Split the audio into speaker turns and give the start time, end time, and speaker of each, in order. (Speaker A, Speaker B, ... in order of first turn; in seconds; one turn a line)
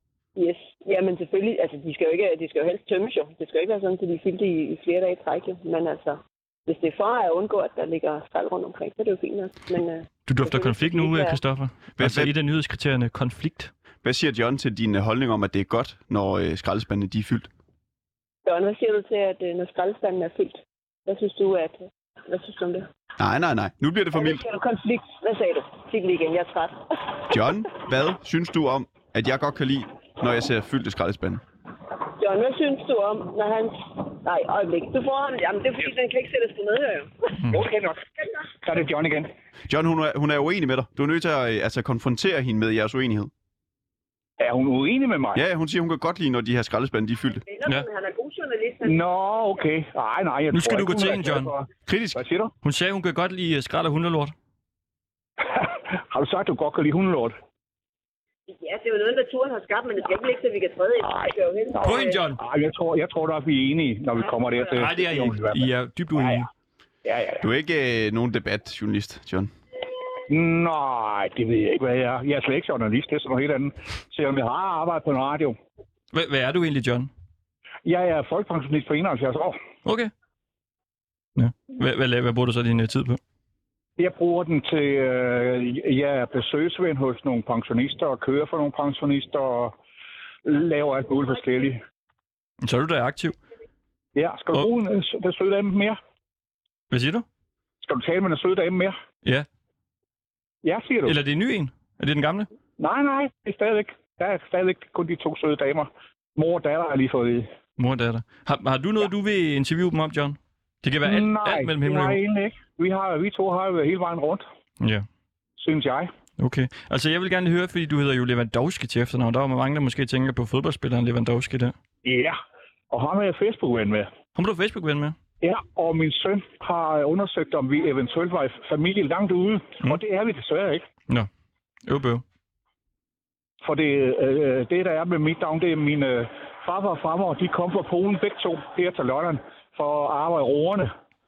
Speaker A: 0.4-11.4
Speaker B: 10.3-13.7
Speaker C: 12.0-12.3
Speaker C: 14.0-17.5
Speaker A: 18.5-22.9
Speaker C: 23.2-24.4
Speaker A: 24.1-26.9
Speaker C: 27.3-31.4
Speaker A: 32.2-37.2
Speaker D: 37.5-38.1
Speaker D: 38.6-39.3
Speaker C: 39.7-43.3
Speaker D: 44.4-45.4
Speaker C: 45.4-47.4
Speaker A: 47.5-49.0
Speaker D: 48.8-52.5
Speaker B: 50.5-51.5
Speaker C: 51.9-52.2
Speaker B: 52.6-54.3
Speaker D: 55.5-57.4
Speaker A: 58.5-62.2
Speaker D: 61.1-66.5
Speaker B: 61.8-62.4
Speaker B: 64.8-66.5
Speaker D: 67.0-67.5
Speaker C: 67.4-69.5
Speaker D: 70.3-75.6
Speaker B: 76.1-77.1
Speaker D: 77.8-79.6
Speaker B: 79.8-80.1
Speaker B: 81.4-83.2
Speaker D: 84.0-89.7
Speaker D: 90.5-91.8
Speaker B: 92.6-93.4
Speaker D: 94.2-96.0
Speaker B: 96.9-97.2
Speaker D: 97.8-99.0
Speaker D: 100.6-101.2
Speaker B: 101.0-102.5
Speaker D: 102.8-107.5
Speaker B: 107.8-112.2
Speaker D: 111.0-114.5
Speaker B: 114.8-115.0
Speaker D: 115.6-116.1
Speaker B: 116.4-121.8
Speaker D: 122.0-122.4
Speaker D: 122.9-124.1
Speaker B: 124.4-125.2
Speaker D: 125.4-130.9
Speaker B: 131.9-132.2
Speaker D: 133.6-140.9